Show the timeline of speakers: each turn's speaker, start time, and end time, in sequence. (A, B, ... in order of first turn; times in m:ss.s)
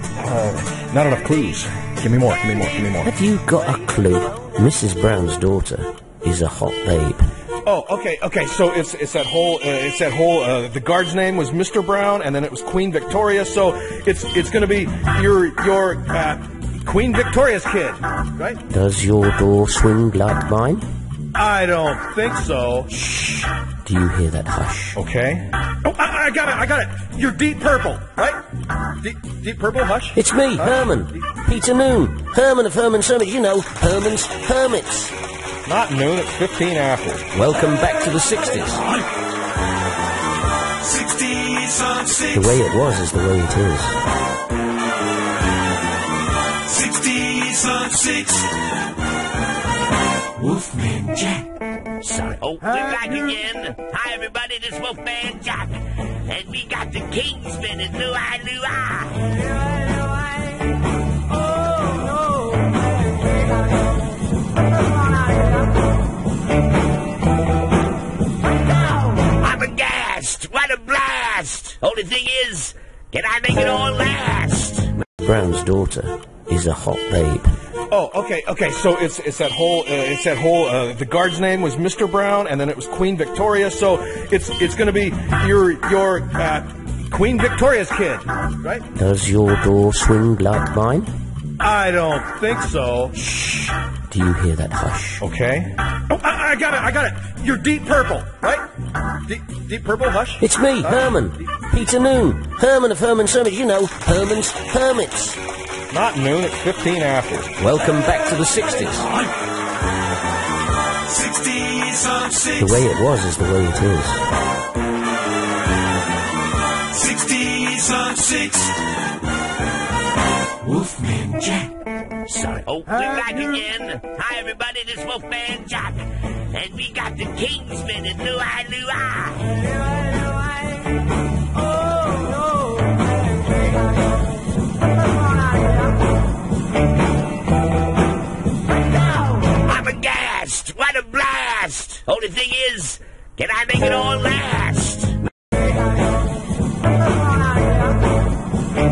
0:00.2-0:03.1 A
0:03.0-0:07.2 B
0:07.6-0:18.6 A
0:18.7-0:20.8 B
0:21.3-0:22.9 A
0:23.1-0:25.0 B
0:25.0-0:28.4 A
0:29.0-0:30.9 A
0:30.1-0:35.1 B
0:35.6-0:37.3 A
0:37.3-0:38.8 B
0:40.8-0:42.2 C
0:42.2-0:44.0 B
0:46.7-0:48.3 C
0:50.4-0:51.4 C
0:52.0-0:59.4 D
1:08.9-1:14.9 D
1:15.2-1:17.5 B
1:17.9-1:28.8 A
1:28.9-1:31.1 B
1:31.6-1:33.2 A
1:33.2-1:35.2 B
1:35.2-1:38.6 A
1:39.2-1:41.2 A
1:40.4-1:45.4 B
1:45.9-1:47.5 A
1:47.6-1:49.1 B
1:51.2-1:52.5 C
1:52.6-1:54.2 B
1:56.9-1:58.7 C
2:00.6-2:01.7 C
2:02.3-2:09.7 D
2:19.2-2:25.2 D